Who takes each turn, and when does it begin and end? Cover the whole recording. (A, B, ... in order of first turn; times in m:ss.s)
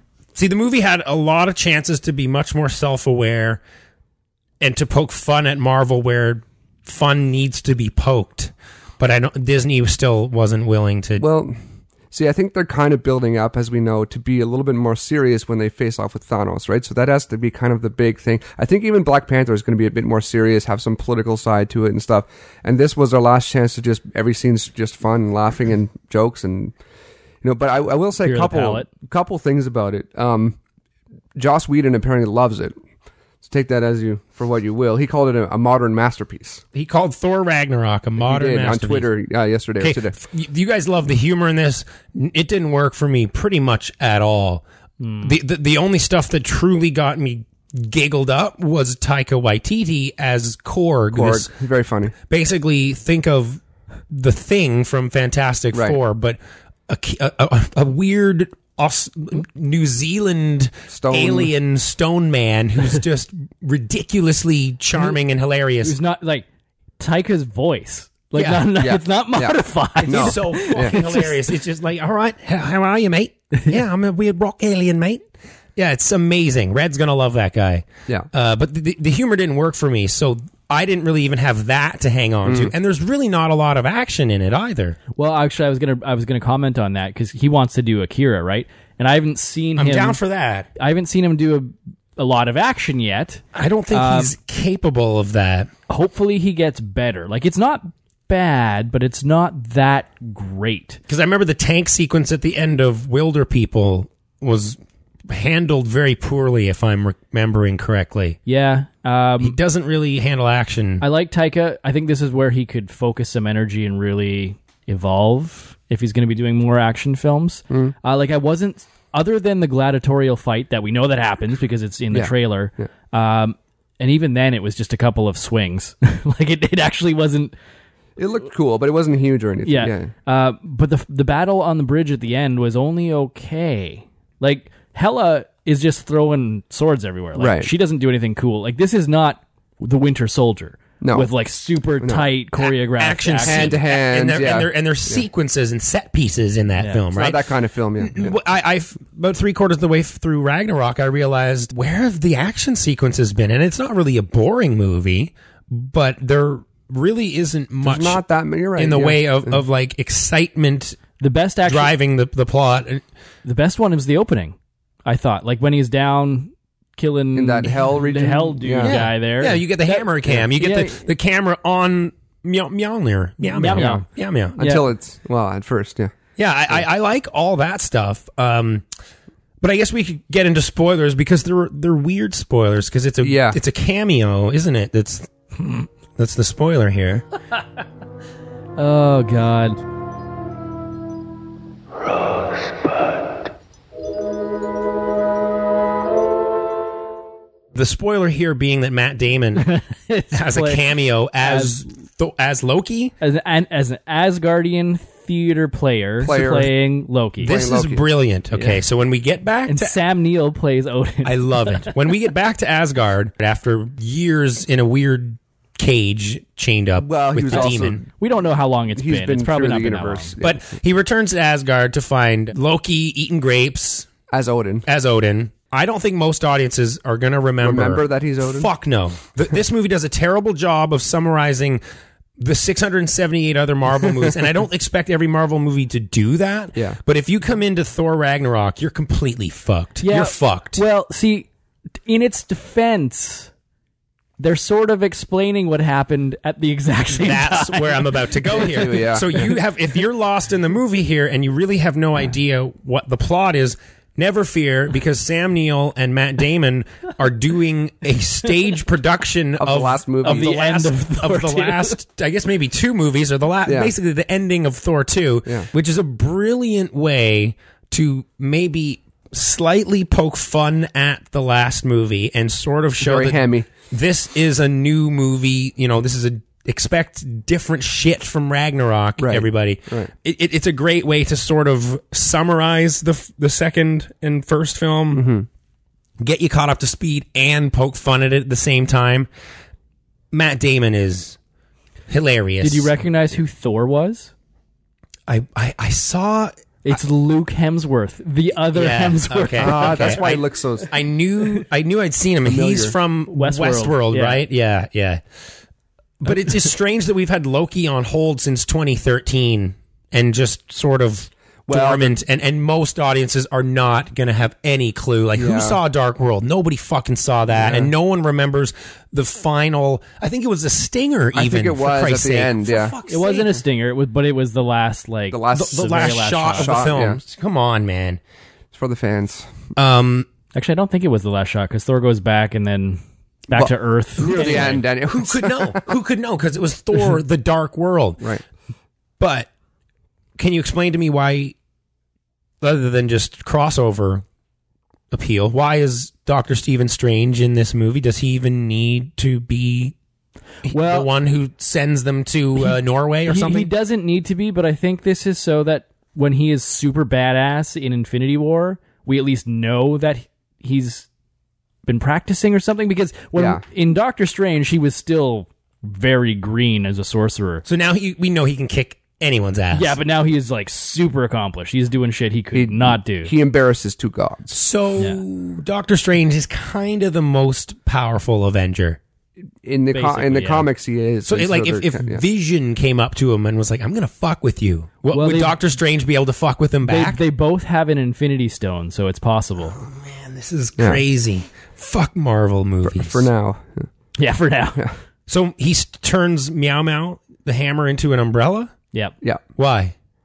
0:00.4-0:03.6 A
0:04.6-0:11.3 A
0:11.2-0:11.6 B
0:12.1-0:26.7 B
0:27.4-0:30.6 B
0:28.2-0:28.9 C
0:31.4-0:32.8 B
0:33.4-0:36.6 B
0:36.7-0:39.1 A
0:38.2-0:40.2 B
0:39.8-0:44.6 A
0:45.0-0:45.4 C
0:45.2-0:51.5 A
0:51.1-0:52.1 B
0:52.3-1:06.0 A
0:55.7-0:56.0 B
1:00.9-1:01.5 B
1:05.8-1:06.4 C
1:07.0-1:11.3 C
1:08.4-1:08.7 A
1:08.8-1:11.0 B
1:10.0-1:25.0 A
1:22.5-1:22.7 B
1:25.2-1:30.2 C
1:29.8-1:30.7 A
1:30.8-1:34.3 C
1:33.5-1:35.7 A
1:35.9-1:41.0 C
1:41.1-1:48.4 A
1:48.5-1:49.6 C
1:49.4-1:51.0 A
1:51.0-2:07.5 C
2:02.1-2:02.9 B
2:08.2-2:10.1 B
2:09.6-2:23.7 C
2:17.4-2:17.7 B
2:21.0-2:21.3 B
2:22.6-2:27.4 A
2:23.4-2:25.2 B
2:27.1-2:28.4 B
2:28.0-2:38.2 A
2:37.8-2:39.6 B
2:38.8-2:41.0 A
2:41.2-2:41.9 C
2:41.6-2:43.0 A
2:43.4-2:44.6 C
2:45.1-2:51.0 C
2:47.4-2:49.0 B
2:48.8-2:54.6 A
2:53.4-2:54.0 C
2:53.8-2:54.0 B
2:54.6-2:56.1 B
2:54.6-2:54.8 C
2:56.4-2:58.8 A
2:59.6-3:05.3 A
3:03.2-3:03.6 B
3:06.2-3:07.2 A
3:08.8-3:09.8 C
3:17.8-3:19.7 A
3:19.6-3:20.8 C
3:20.3-3:23.1 A
3:21.4-3:21.8 C
3:23.2-3:27.5 C
3:26.2-3:26.7 B
3:27.4-3:30.0 A
3:27.4-3:28.0 B
3:28.5-3:28.8 C
3:29.7-3:32.0 C
3:31.2-3:38.0 A
3:37.0-3:38.1 B
3:37.5-3:40.3 C
3:39.0-3:40.6 B
3:40.4-3:44.1 A
3:44.3-3:44.9 B
3:44.9-3:51.8 A
3:47.6-3:48.7 B
3:52.4-4:00.8 A
4:00.0-4:01.5 C
4:02.1-4:03.5 C
4:04.4-4:08.6 C
4:07.2-4:45.3 A
4:08.6-4:09.5 B
4:19.6-4:20.5 B
4:20.2-4:22.0 C
4:23.7-4:23.9 B
4:33.0-4:33.7 B
4:39.2-4:40.1 B
4:45.1-4:45.5 B
4:46.2-4:49.3 A
4:50.3-4:51.4 A
4:52.1-4:52.9 A
4:52.6-4:54.3 C
4:55.3-4:56.5 A
4:56.8-5:00.2 C
4:58.7-5:05.2 A
4:59.6-5:00.9 B
5:02.4-5:03.0 B
5:03.3-5:04.4 C
5:06.2-5:23.6 A
5:11.7-5:12.2 B
5:15.4-5:15.8 B
5:17.6-5:17.9 B
5:21.4-5:23.0 B
5:23.1-5:26.9 C
5:25.3-5:27.2 B
5:25.5-5:28.2 A
5:28.7-5:29.5 B
5:29.8-5:30.3 A
5:30.5-5:34.8 C
5:33.6-5:35.9 B
5:34.2-5:38.2 A
5:39.2-5:39.5 A
5:40.4-5:41.6 A
5:42.6-5:44.2 A
5:45.1-5:50.0 A
5:50.6-5:53.7 A
5:50.7-5:51.1 C
5:53.3-6:01.1 C
6:01.9-6:07.6 C
6:03.4-6:03.6 B
6:07.7-6:10.0 A
6:09.7-6:13.3 C
6:12.5-6:14.6 B
6:14.5-6:19.0 A
6:19.6-6:22.2 B
6:19.9-6:20.7 C
6:21.3-6:27.2 A
6:25.1-6:25.6 C
6:26.8-6:29.8 C
6:29.8-6:33.3 A
6:32.8-6:33.9 B
6:34.2-6:34.8 C
6:35.3-6:38.7 A
6:39.6-6:40.0 A